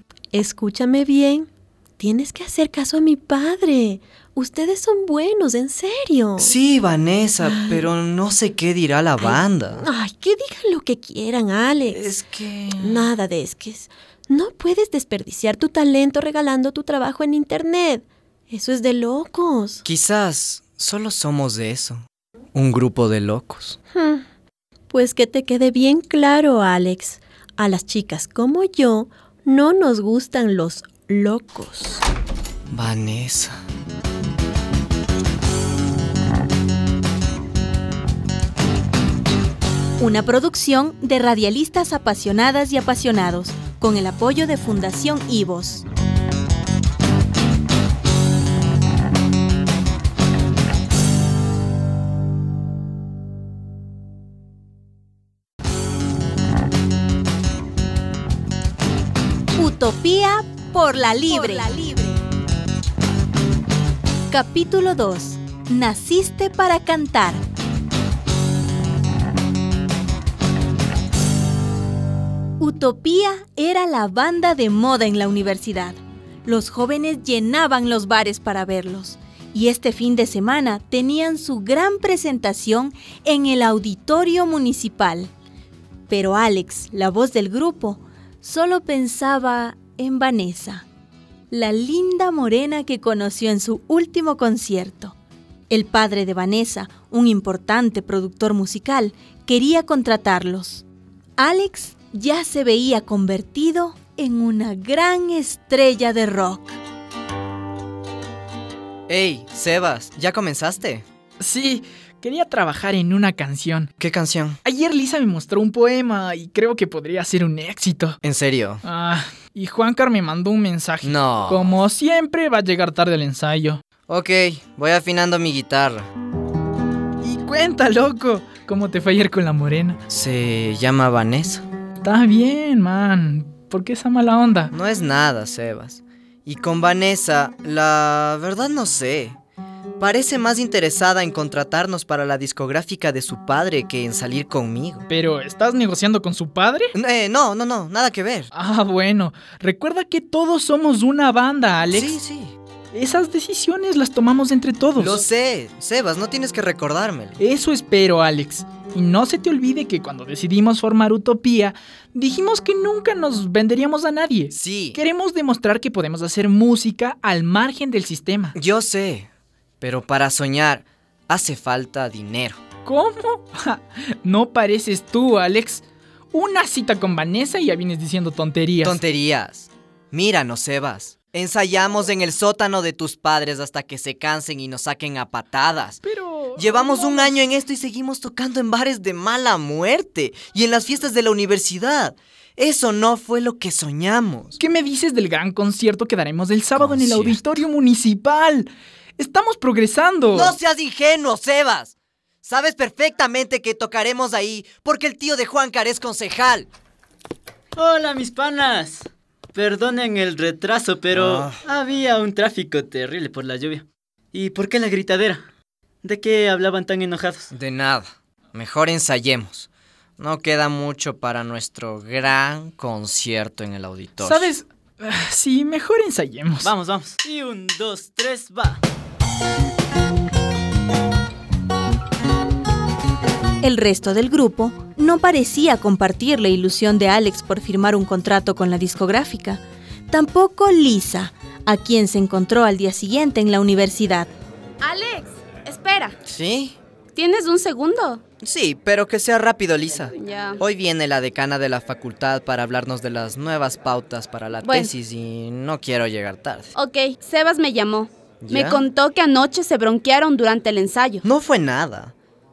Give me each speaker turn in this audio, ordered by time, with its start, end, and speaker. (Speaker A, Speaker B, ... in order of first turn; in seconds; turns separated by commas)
Speaker A: 0.3-1.5, Speaker A: 2.0-6.6, Speaker B: 6.4-9.9, Speaker A: 7.4-7.9, Speaker A: 9.2-12.2, Speaker B: 11.9-13.1, Speaker A: 12.8-19.8, Speaker B: 19.8-23.8, Speaker A: 23.9-24.2, Speaker A: 24.9-32.0, Speaker B: 32.7-33.6, Speaker C: 40.0-45.9, Speaker C: 59.6-61.8, Speaker C: 64.3-67.4, Speaker C: 72.6-85.3, Speaker C: 86.1-90.8, Speaker C: 91.5-95.2, Speaker C: 95.7-100.8, Speaker C: 101.4-106.8, Speaker B: 109.1-111.0, Speaker D: 111.4-113.9, Speaker B: 114.0-114.6, Speaker D: 114.7-118.2, Speaker B: 118.2-118.8, Speaker D: 118.8-123.8, Speaker B: 121.0-121.8, Speaker B: 124.1-126.1, Speaker D: 127.2-130.0, Speaker B: 130.1-131.7, Speaker D: 132.0-134.7, Speaker B: 134.7-139.4, Speaker B: 140.0-145.1, Speaker D: 145.1-146.9, Speaker B: 146.9-148.5, Speaker D: 148.5-152.2, Speaker B: 151.9-152.5, Speaker D: 152.9-155.2, Speaker B: 155.0-157.4, Speaker D: 157.4-168.6, Speaker B: 164.5-165.0, Speaker B: 168.6-169.3, Speaker B: 169.8-172.6, Speaker D: 172.8-179.0, Speaker B: 178.8-186.0, Speaker D: 186.0-187.3, Speaker B: 186.6-194.6, Speaker D: 194.6-200.6, Speaker B: 196.8-197.4, Speaker B: 200.3-206.7, Speaker E: 207.8-215.5, Speaker B: 211.1-211.6, Speaker E: 216.0-217.5, Speaker B: 217.5-224.5, Speaker D: 224.2-226.7, Speaker E: 226.6-228.8, Speaker C: 233.6-244.3, Speaker F: 244.8-246.2, Speaker B: 246.2-246.8, Speaker F: 247.2-248.2, Speaker B: 248.4-256.7, Speaker F: 250.2-250.6, Speaker F: 254.6-254.9, Speaker F: 256.8-261.2, Speaker B: 258.4-258.8, Speaker B: 261.2-262.1